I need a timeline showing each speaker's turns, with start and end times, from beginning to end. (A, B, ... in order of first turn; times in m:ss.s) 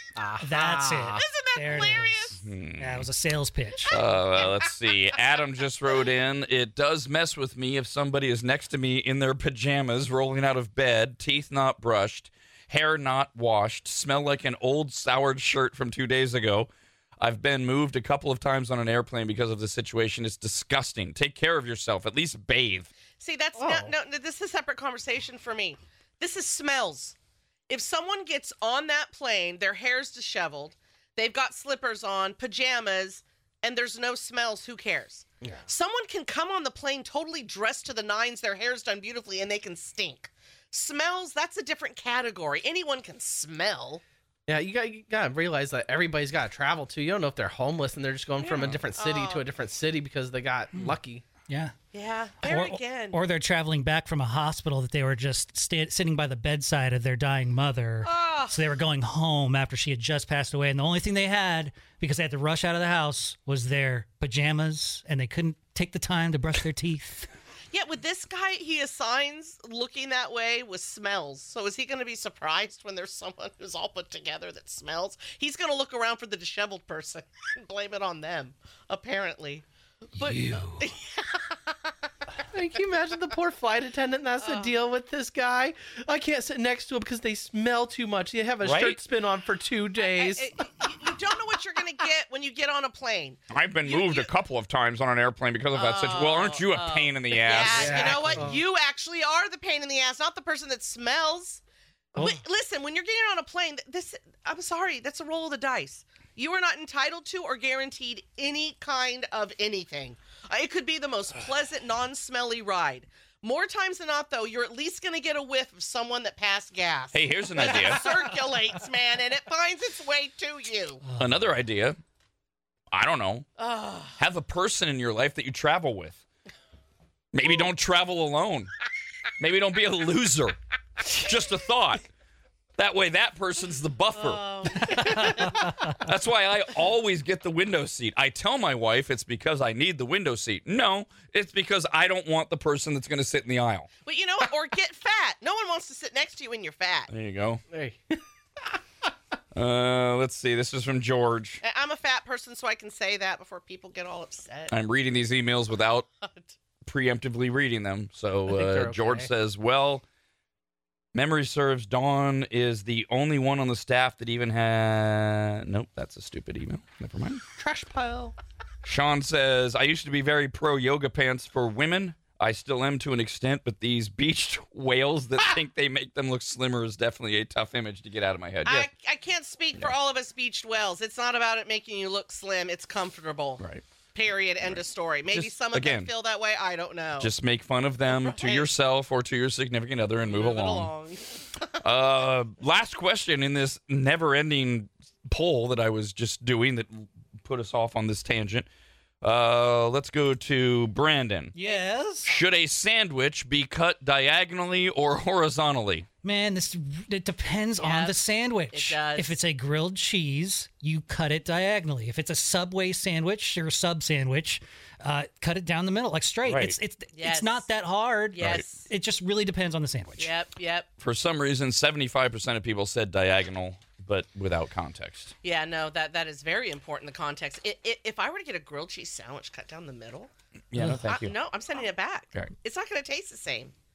0:00.2-0:01.2 A
0:00.4-0:04.0 B
0:01.1-0:02.4 C
0:02.4-0:03.1 D
0:03.9-0:16.7 D
0:03.9-0:04.6 C
0:17.2-0:22.9 D
0:23.2-0:27.1 C
0:23.6-0:23.9 A
0:27.7-0:44.0 C
0:44.5-0:51.2 A
0:48.4-0:49.4 C
0:51.5-0:51.7 B
0:51.9-0:53.2 C
0:52.4-1:07.3 B
0:58.0-0:58.6 C
1:07.7-1:19.6 C
1:20.2-1:20.9 B
1:20.2-1:21.9 C
1:22.5-1:30.8 A
1:24.4-1:24.7 C
1:28.6-1:29.0 D
1:30.0-1:34.3 C
1:33.5-1:38.4 D
1:35.7-1:41.6 C
1:37.6-1:38.6 A
1:42.2-2:01.0 C
1:57.1-1:58.1 D
2:01.0-2:01.4 B
2:01.2-2:02.0 D
2:02.9-2:03.5 D
2:03.6-2:04.2 C
2:04.2-2:06.2 D
2:07.3-2:08.7 D
2:09.4-2:12.1 D
2:12.8-2:23.9 D
2:14.1-2:15.8 C
2:15.0-2:15.2 B
2:24.0-2:27.1 C
2:27.1-2:27.6 D
2:27.7-2:28.2 A
2:29.5-2:31.6 D
2:31.6-2:34.7 C
2:34.7-2:36.0 D
2:36.8-2:40.0 D
2:38.5-2:39.3 A
2:41.1-2:47.4 D
2:47.6-2:48.3 A
2:48.8-2:58.9 D
2:58.6-3:03.6 C
3:04.1-3:07.3 C
3:04.6-3:06.1 D
3:07.2-3:10.9 D
3:08.1-3:08.7 C
3:10.2-3:11.8 C
3:11.8-3:18.7 D
3:19.2-3:21.5 D
3:21.5-3:22.3 B
3:22.2-3:26.1 D
3:26.2-3:40.3 B
3:27.8-3:29.4 C
3:36.4-3:36.8 D
3:37.2-3:37.7 C
3:38.3-3:38.9 C
3:38.4-3:38.6 D
3:40.2-3:40.9 C
3:41.0-3:45.3 D
3:45.4-3:50.3 C
3:50.7-3:51.3 D
3:51.0-3:53.7 C